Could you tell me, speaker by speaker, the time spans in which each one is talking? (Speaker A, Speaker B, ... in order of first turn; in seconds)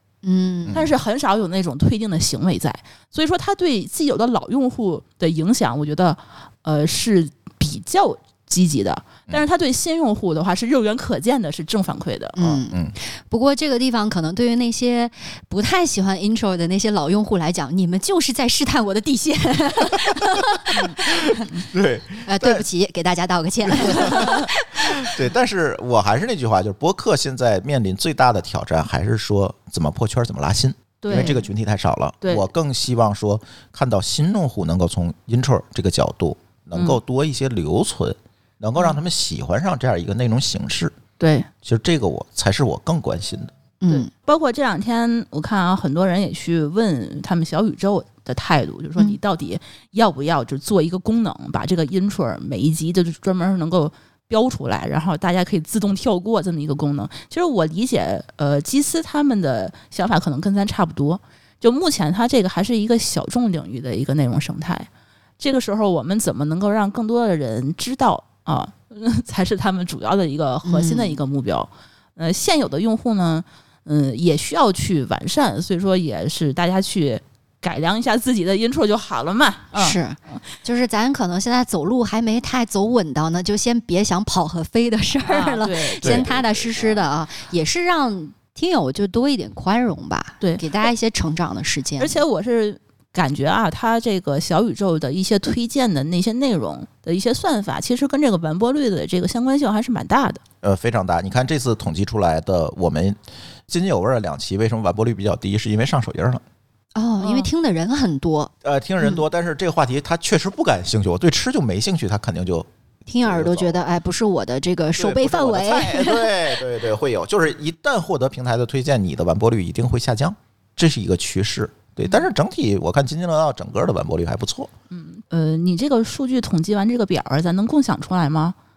Speaker A: 0.2-0.8, 12.4-21.4, 22.2-25.1, 31.1-31.4, 43.8-44.1, 70.6-71.2, 79.7-92.2, 106.9-109.2, 113.1-116.3
Speaker B: 0.7-12.4, 31.0-31.4, 32.2-32.5, 41.2-41.5, 43.9-64.9, 65.4-80.4, 85.3-86.3, 90.4-90.8, 92.0-100.4, 107.2-107.5, 124.9-128.6
Speaker C: 12.4-12.9, 20.1-22.6, 23.7-40.9, 41.6-43.5, 86.0-87.0, 100.6-106.4, 108.6-112.7, 113.2-113.8, 115.0-124.7